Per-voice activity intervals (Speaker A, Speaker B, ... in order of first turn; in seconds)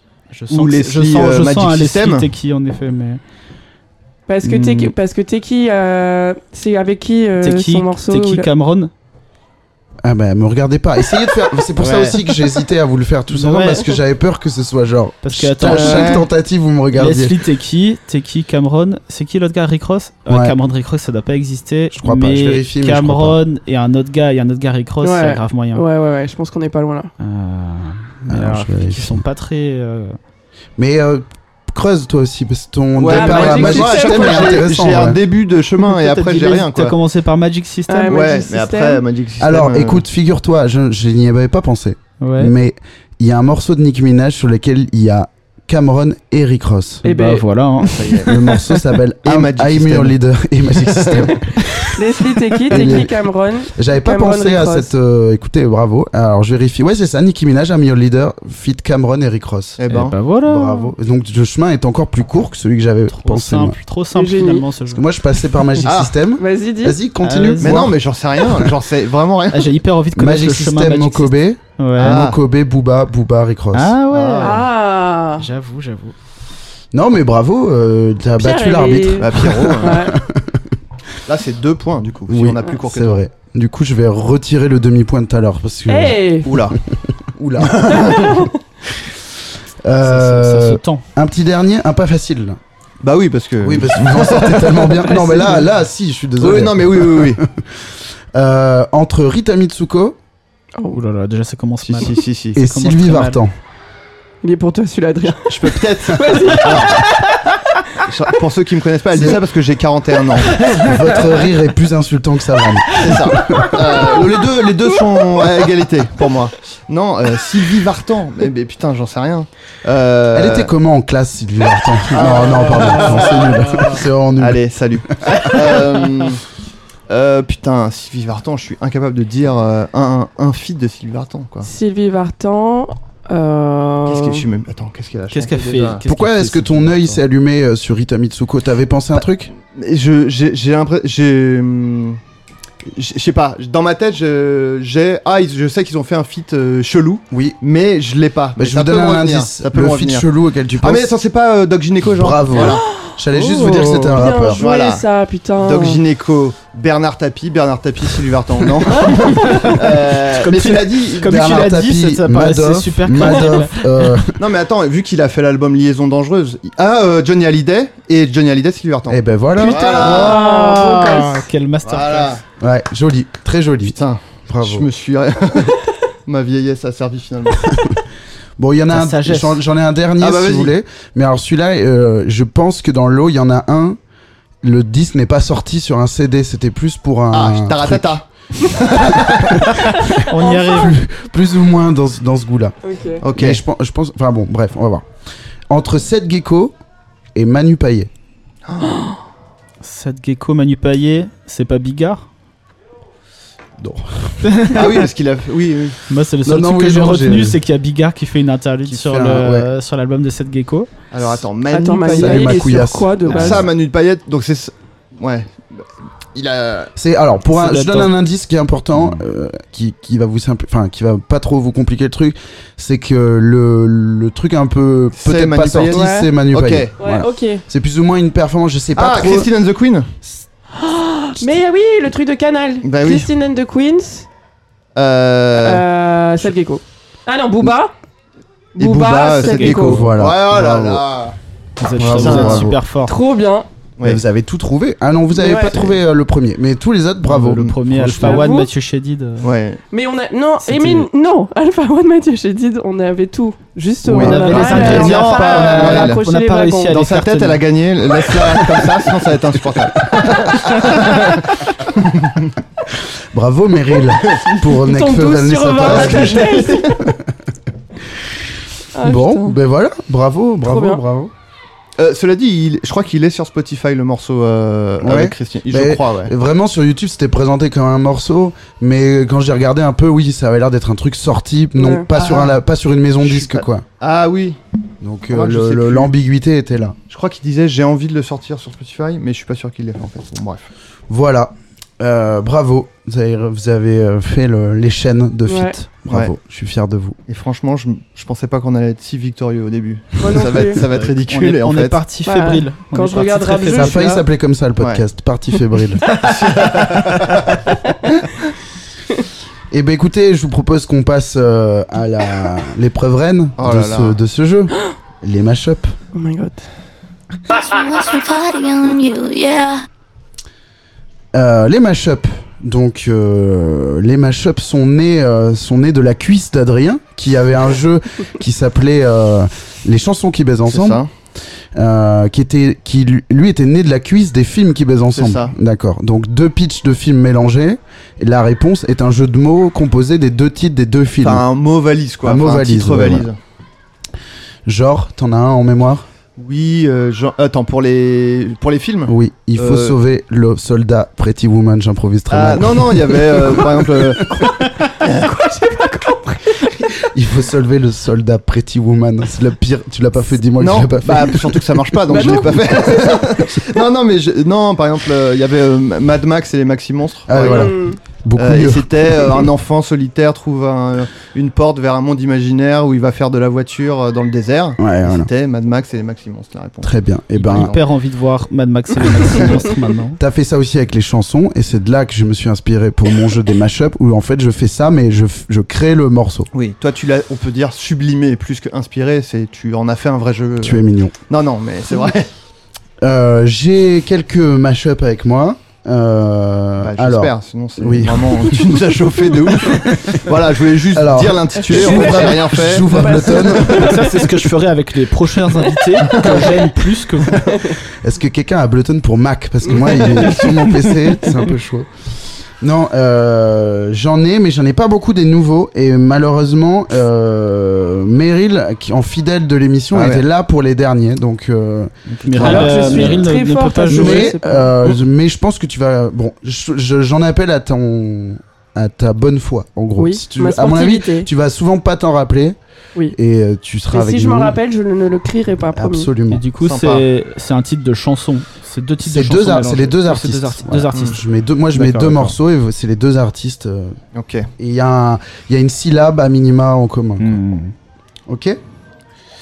Speaker A: 0.3-3.2, 4.4-4.9, 7.4-8.9, 11.8-12.5, 13.3-14.0, 15.2-16.2, 16.9-25.8, 27.2-30.2, 35.9-38.2, 42.2-42.5, 47.0-48.5, 59.9-60.9, 63.1-65.0, 67.2-67.9, 69.5-72.2, 73.7-74.6, 75.4-76.1, 90.0-91.0, 100.9-103.4, 122.4-124.0, 125.3-126.1, 135.3-137.2, 153.3-154.2, 159.5-164.1, 170.0-172.4, 178.9-179.6, 190.3-190.9, 199.8-202.2, 204.4-205.1, 206.1-210.9, 217.5-218.1, 239.4-239.7, 241.8-243.1, 247.2-249.5, 250.6-251.1, 254.1-257.7, 300.9-304.1, 377.5-380.2, 403.7-407.4, 422.1-424.4, 436.3-441.2, 441.7-442.4, 447.2-447.7
Speaker B: 0.5-2.3, 33.0-37.0, 38.1-40.0, 47.8-48.5, 49.2-50.1, 50.7-51.3, 59.8-60.1, 65.8-66.2, 67.6-69.8, 72.0-72.4, 74.1-74.6, 79.2-80.1, 81.3-83.2, 86.5-86.8, 87.6-88.3, 93.0-95.4, 96.4-97.4, 101.8-102.6, 105.5-107.1, 108.0-110.6, 113.0-120.7, 122.1-126.4, 127.1-131.7, 134.1-136.0, 139.7-142.2, 142.9-150.3, 150.8-152.8, 154.1-155.0, 155.6-161.6, 164.4-170.4, 171.8-172.4, 173.8-177.7, 180.2-180.7, 187.3-189.7, 193.2-193.6, 198.6-199.1, 204.7-206.0, 211.1-216.9, 225.1-226.9, 228.9-230.1, 232.8-233.3, 234.9-235.8, 238.8-241.3, 242.1-242.6, 249.4-249.8, 254.1-256.2, 256.9-262.5, 265.8-267.0, 272.0-276.3, 282.1-282.6, 283.2-284.6, 285.3-286.1, 287.1-290.7, 297.3-302.0, 304.8-305.0, 306.1-307.6, 313.6-314.2, 330.7-331.1, 335.1-335.5, 341.2-343.4, 346.4-349.9, 352.3-354.5, 360.6-367.8, 368.4-377.8, 379.2-379.5, 386.5-392.3, 396.8-403.5, 406.0-406.7, 419.9-420.2, 422.4-422.7, 436.6-437.0, 444.1-444.5
Speaker C: 4.3-8.5, 25.0-27.1, 33.1-34.6, 37.9-39.0, 47.0-47.4, 51.9-54.9, 64.1-64.6, 66.4-67.0, 74.4-75.5, 78.4-79.2, 79.8-80.1, 85.9-86.5, 87.9-88.5, 95.0-95.5, 104.4-107.0, 131.6-134.4, 152.6-152.9, 154.2-156.0, 159.1-159.6, 169.6-171.4, 190.2-190.9, 192.8-193.2, 211.7-213.6, 225.9-226.3, 227.0-227.6, 230.8-234.3, 235.6-237.9, 238.8-240.0, 243.1-243.7, 245.3-245.9, 248.2-248.7, 249.9-256.9, 264.8-266.9, 268.9-269.6, 270.6-271.0, 281.8-282.1, 295.5-295.7, 300.2-300.8, 302.2-304.2, 316.1-316.6, 355.0-356.7, 362.1-363.2, 367.4-368.0, 401.7-404.1, 422.4-424.7, 430.0-431.3, 433.9-436.1
Speaker D: 10.0-17.4, 20.3-20.5, 21.9-23.4, 28.3-29.2, 30.8-35.2, 39.4-47.0, 48.2-52.0, 52.7-59.8, 60.4-63.8, 64.9-68.7, 70.2-74.0, 76.9-80.8, 82.3-86.8, 87.3-88.2, 89.8-92.6, 93.6-100.2, 102.5-103.5, 109.1-109.4, 110.8-113.9, 120.3-125.5, 136.1-139.5, 147.3-147.6, 148.6-151.1, 152.0-154.7, 161.2-164.4, 169.1-170.4, 172.6-174.9, 178.6-184.0, 184.6-188.2, 188.9-190.0, 190.7-192.8, 193.3-195.1, 195.7-196.7, 197.3-198.1, 203.8-204.5, 206.4-207.6, 208.8-209.7, 212.1-213.7, 216.9-229.5, 239.7-241.0, 241.9-242.8, 244.0-248.4, 254.8-255.0, 262.9-267.3, 269.0-271.3, 275.0-283.9, 285.0-287.0, 291.1-297.2, 303.7-306.1, 309.7-315.9, 321.3-331.0, 331.7-341.4, 342.2-343.3, 344.6-346.1, 349.1-354.4, 357.0-362.6, 367.3-369.5, 374.8-375.3, 376.8-377.8, 380.2-386.5, 390.6-391.1, 393.0-398.8, 400.9-404.1, 408.0-411.9, 412.6-423.3, 423.9-432.6, 433.1-434.6, 435.7-436.4, 439.0-444.0, 444.6-447.4, 448.3-448.6
Speaker E: 317.5-319.8